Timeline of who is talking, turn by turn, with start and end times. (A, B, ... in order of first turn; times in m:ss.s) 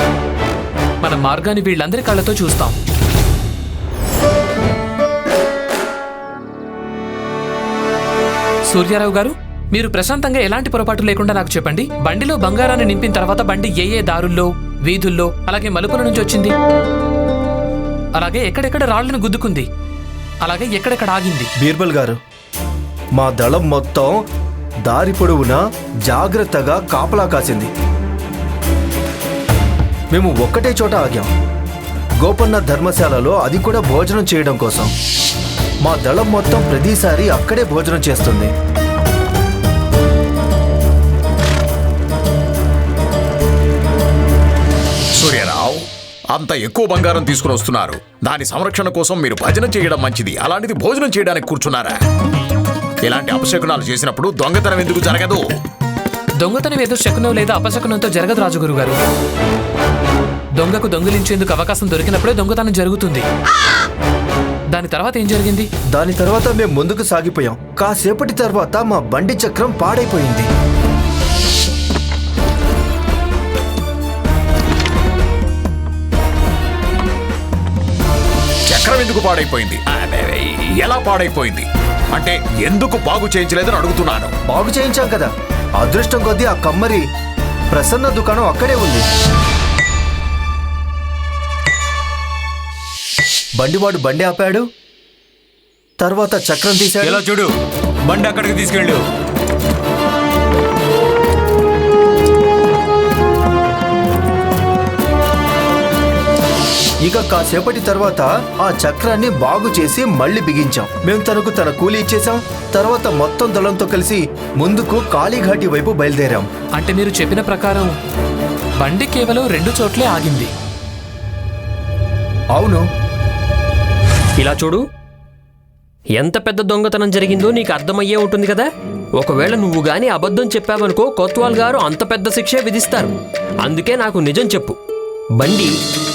0:01.0-0:02.8 A
0:08.7-0:16.5 A
0:18.2-0:19.7 A
0:20.4-0:21.5 A
0:21.6-0:22.2 B
0:23.2-0:24.2 B
0:24.9-0:27.7 B
0:30.1-0:31.3 B
0:32.2-0:34.9 B
0:35.8-0:38.5 B
0:45.2-0:52.0 C
0:53.0-0:55.4 C
0:56.4-0:59.0 A
1:00.6-1:03.2 A
1:04.7-1:05.7 A
1:06.0-1:10.5 B
1:18.7-1:24.3 C
1:24.5-1:27.0 B
1:27.7-1:29.0 B
1:33.6-1:34.6 B
1:36.0-1:37.2 B
1:37.0-1:39.0 D
1:47.0-1:56.5 B
1:56.8-1:58.0 A
1:58.8-2:00.5 A
2:02.6-2:02.8 B
2:04.4-2:04.8 E
2:06.2-2:08.7 E
2:09.2-2:13.1 E
2:13.6-2:14.8 E
2:15.4-2:15.7 E